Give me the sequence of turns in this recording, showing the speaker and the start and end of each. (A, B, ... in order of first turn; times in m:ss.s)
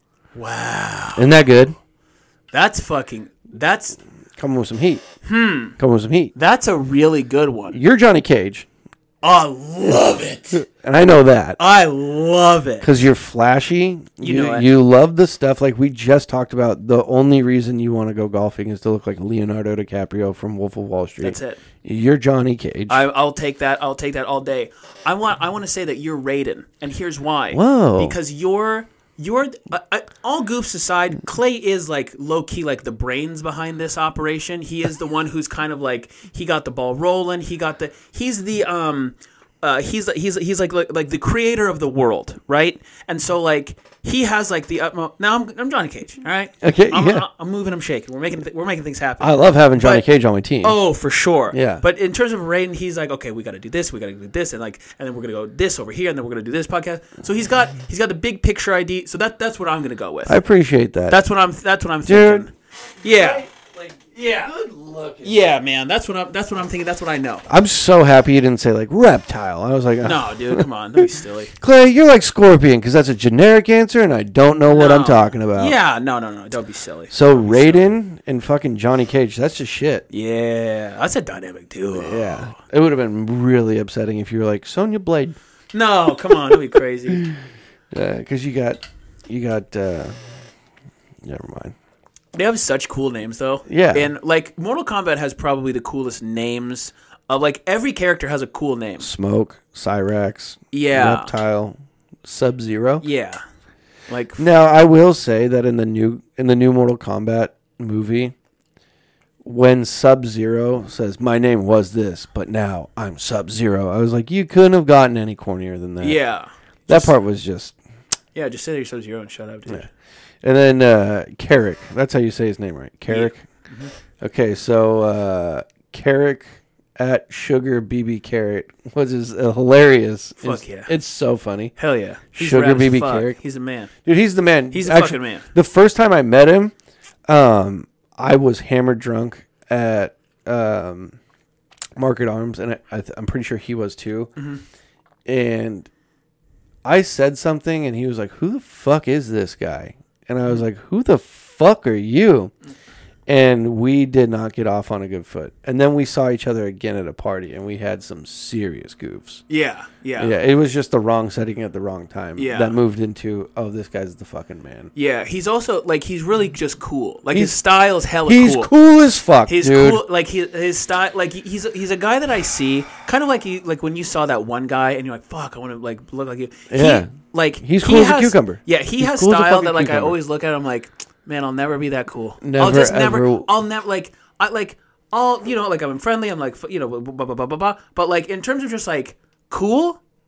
0:00.3-0:01.3 A
0:01.1-0:01.8 B
0:02.5-0:04.0 A
0:04.4-0:05.0 B
0:05.2-0:05.8 A
0:05.8-0:06.3 B
0:06.3-0:07.8 A
0:07.7-0:08.7 B
0:09.2-0:10.6 A
0:10.6-0:11.6 B
0:11.6-0:13.1 A
0:12.8-0:23.0 B
0:14.2-0:14.7 A
0:21.2-0:21.6 A
0:22.9-0:50.0 A
0:27.5-0:28.2 B
0:46.6-0:47.3 B
0:49.2-0:50.8 B
0:50.6-1:00.4 A
0:51.5-0:51.8 B
1:00.2-1:01.2 B
1:01.1-1:03.4 A
1:02.0-1:02.5 B
1:03.0-1:05.4 B
1:05.2-1:07.4 A
1:07.5-1:11.0 B
1:10.0-1:11.5 A
1:11.6-1:15.7 B
1:14.7-1:17.8 A
1:17.1-1:20.0 B
1:20.1-1:22.5 A
1:21.9-1:25.4 B
1:25.7-1:27.2 A
1:27.9-1:30.1 B
1:31.2-1:31.7 B
1:32.3-1:39.1 A
1:33.7-1:34.1 B
1:39.0-1:43.1 B
1:40.7-1:41.3 A
1:43.0-1:43.4 A
1:44.1-1:44.4 A
1:44.4-1:48.3 B
1:49.4-1:56.2 B
1:56.0-1:57.2 A
1:56.9-1:57.7 B
1:58.3-1:59.9 A
2:00.4-2:03.4 B
2:03.1-2:03.9 A
2:04.2-2:11.7 B
2:10.4-2:10.9 A
2:11.8-2:13.9 A
2:12.3-2:13.4 B
2:14.0-2:16.7 B
2:14.7-2:15.5 A
2:17.3-2:21.2 B
2:22.0-2:24.3 B
2:24.4-2:24.6 A
2:25.2-2:25.9 B
2:26.8-2:32.5 B
2:33.3-2:39.4 B
2:39.5-2:40.3 A
2:40.2-2:44.9 B
2:42.4-2:42.8 A
2:44.9-2:48.7 A
2:48.2-2:50.0 B
2:49.4-3:10.0 A
2:56.7-3:00.2 B
3:02.4-3:03.5 B